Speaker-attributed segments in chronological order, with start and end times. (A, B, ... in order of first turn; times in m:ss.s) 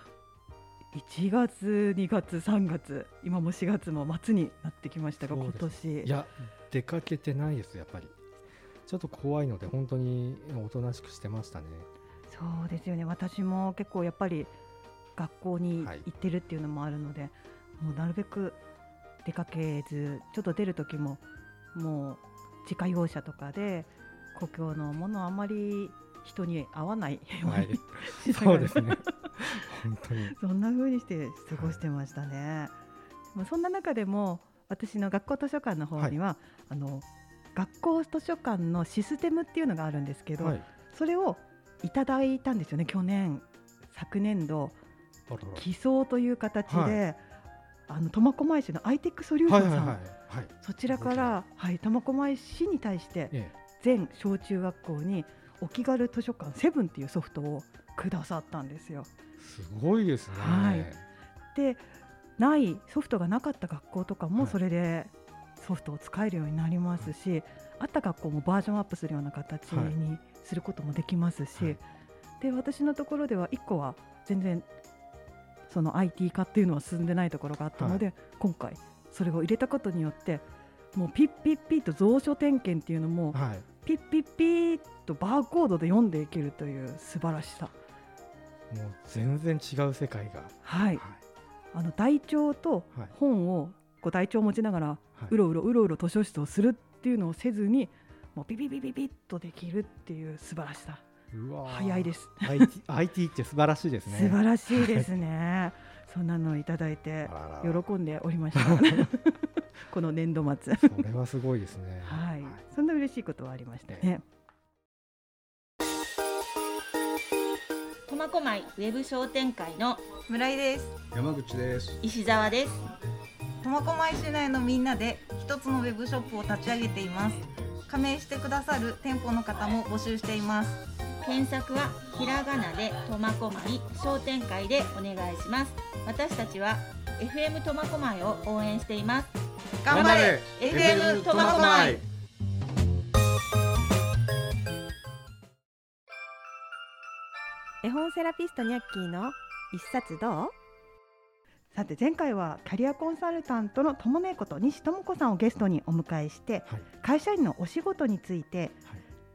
0:00.9-0:06.1 A
0:05.2-0:08.1 B
0:08.9-0:11.9 B
0:12.3-0:14.5 A
0:15.2-0:18.6 A
0:15.8-0:16.0 B
0:19.2-0:21.2 A
0:21.7-0:28.9 A
0:27.4-0:30.3 B
0:30.3-0:32.7 A
0:31.5-0:31.8 B
0:33.3-0:37.0 A
0:37.6-0:44.8 A
0:40.4-0:40.6 B
0:45.3-0:45.6 B
0:45.6-0:47.2 A
0:46.7-0:47.0 B
0:47.9-0:50.0 A
0:49.5-0:51.4 B
0:50.6-0:59.1 A
0:59.4-1:01.0 B
1:00.3-1:00.9 A
1:01.5-1:01.9 A
1:02.4-1:11.8 A
1:09.7-1:10.0 B
1:12.4-1:14.6 A
1:15.7-1:27.7 A
1:17.8-1:18.0 B
1:23.3-1:23.6 B
1:28.7-1:31.2 B
1:30.6-1:31.0 A
1:31.7-1:41.0 A
1:41.3-1:45.1 B
1:41.7-1:42.7 A
1:44.0-1:51.0 A
1:47.2-1:47.8 B
1:48.5-1:49.1 B
1:50.8-1:52.6 B
1:52.0-1:54.2 A
1:58.1-2:00.0 C
2:00.3-2:01.0 D
2:01.1-2:02.0 E
2:02.0-2:02.8 C
2:03.6-2:10.8 D
2:11.2-2:19.3 C
2:19.8-2:22.0 C
2:19.9-2:22.0 E
2:19.9-2:22.0 D
2:27.8-2:30.5 A
2:31.7-2:38.8 A